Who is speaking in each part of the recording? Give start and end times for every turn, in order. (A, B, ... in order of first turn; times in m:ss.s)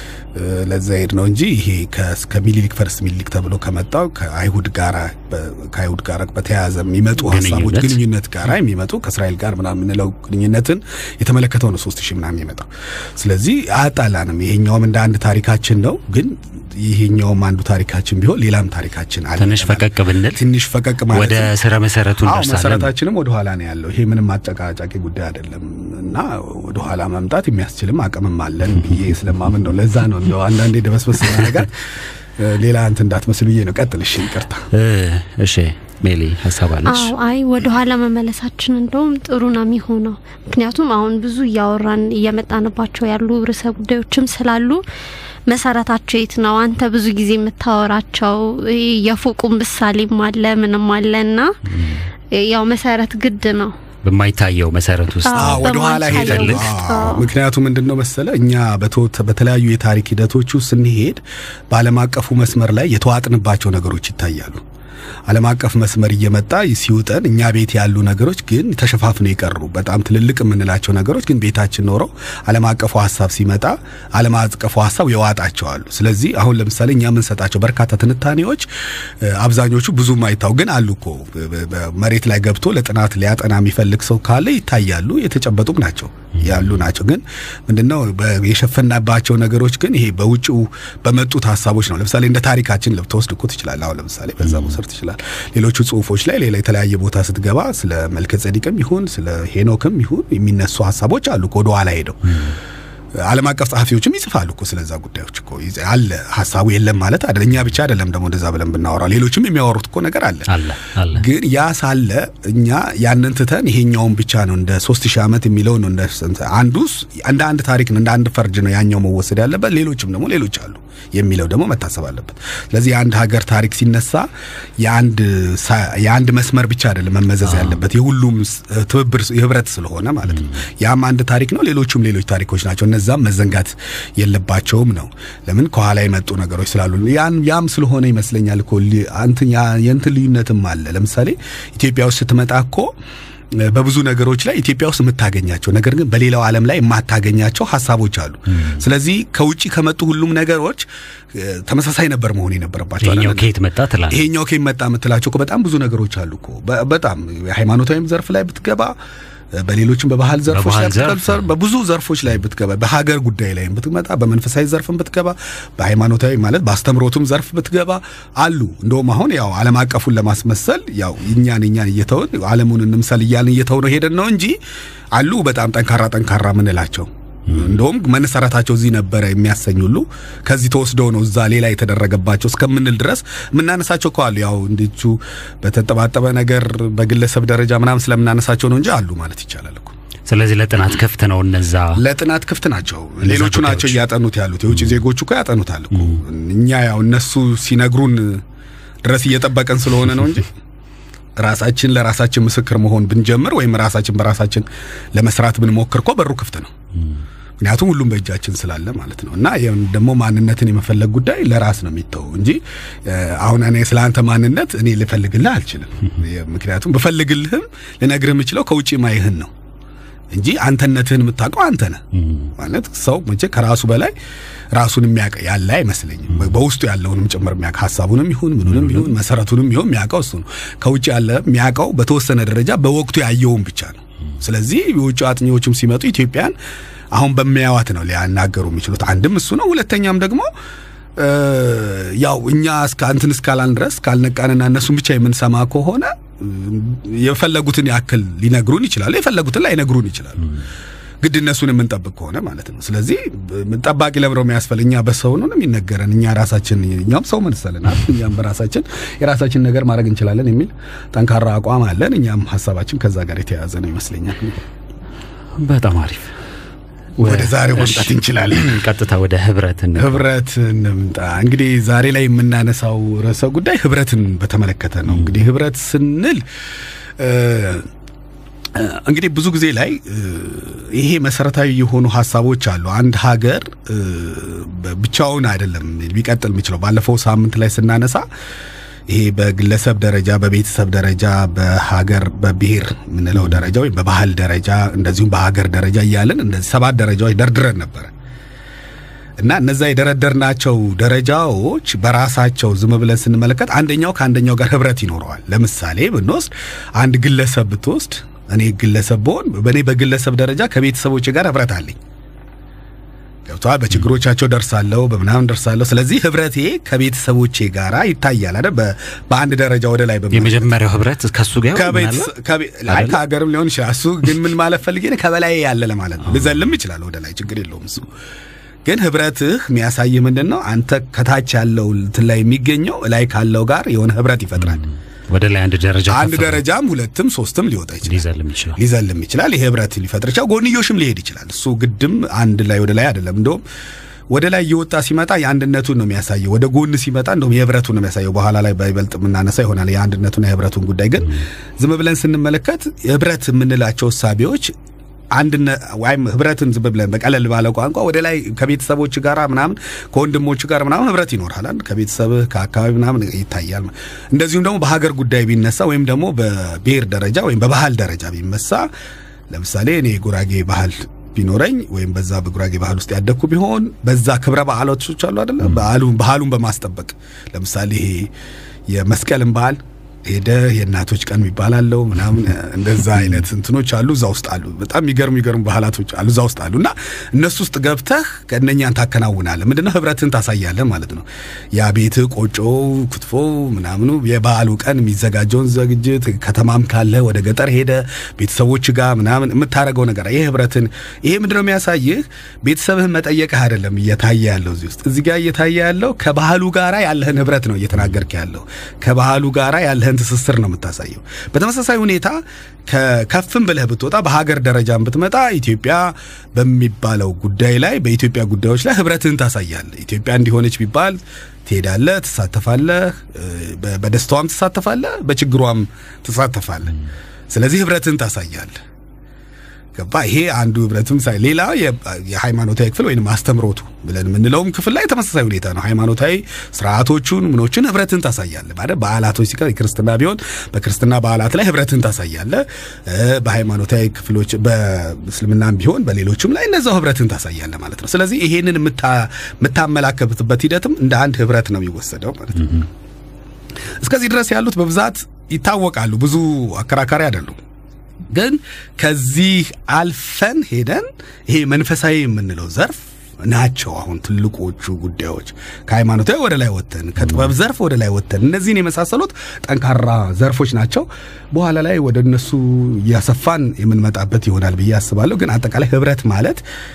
0:00.3-0:21.5 A
0:07.2-0:08.0 B
0:19.4-0:20.4 B
0:21.1-0:22.9 B
0:22.2-0:31.8 A
0:32.4-0:34.7 A
0:34.7-0:37.1 B
0:36.8-0:44.8 C
0:45.5-0:51.6 C
0:51.7-0:52.0 B
0:52.3-0:53.7 C
0:54.0-0:56.7 B
0:55.2-0:57.3 C
0:55.4-1:04.6 A
1:05.3-1:42.4 A
1:43.2-1:50.5 A
1:50.5-1:51.2 B
1:51.1-2:04.3 A
2:04.8-2:22.9 A
2:07.5-2:07.7 B
2:23.5-2:33.5 A
2:33.0-2:34.2 B
2:34.1-2:38.9 A
2:39.5-2:54.6 A
2:40.5-2:41.4 B
2:55.1-3:09.9 A
3:10.3-3:12.0 B
3:12.0-3:18.4 A
3:13.2-3:14.0 B
3:19.0-3:20.5 A
3:21.4-3:26.7 A
3:27.6-3:39.5 A
3:40.3-3:42.0 A
3:42.2-3:42.5 B
3:42.5-3:44.1 A
3:44.7-3:56.5 A
3:57.1-4:00.5 A
4:01.2-4:10.5 A
4:11.2-4:24.6 A
4:25.6-4:26.3 B
4:27.2-4:28.8 A
4:27.2-4:30.2 B
4:30.0-4:36.4 A
4:37.2-4:37.9 A
4:38.7-4:48.2 A
4:49.1-4:58.1 A
4:59.4-5:12.0 A
5:13.4-5:20.7 A
5:20.3-5:22.3 B
5:21.7-5:28.1 A
5:22.9-5:23.2 B
5:28.8-5:34.8 A
5:35.3-5:36.6 B
5:36.1-5:43.6 A
5:38.0-5:38.8 B
5:44.3-5:54.7 A
5:55.3-6:08.9 A
6:09.5-6:18.3 A
6:18.9-7:07.0 A
7:07.5-7:08.8 A
7:09.9-7:32.8 A
7:34.0-7:37.6 A
7:38.3-7:56.6 A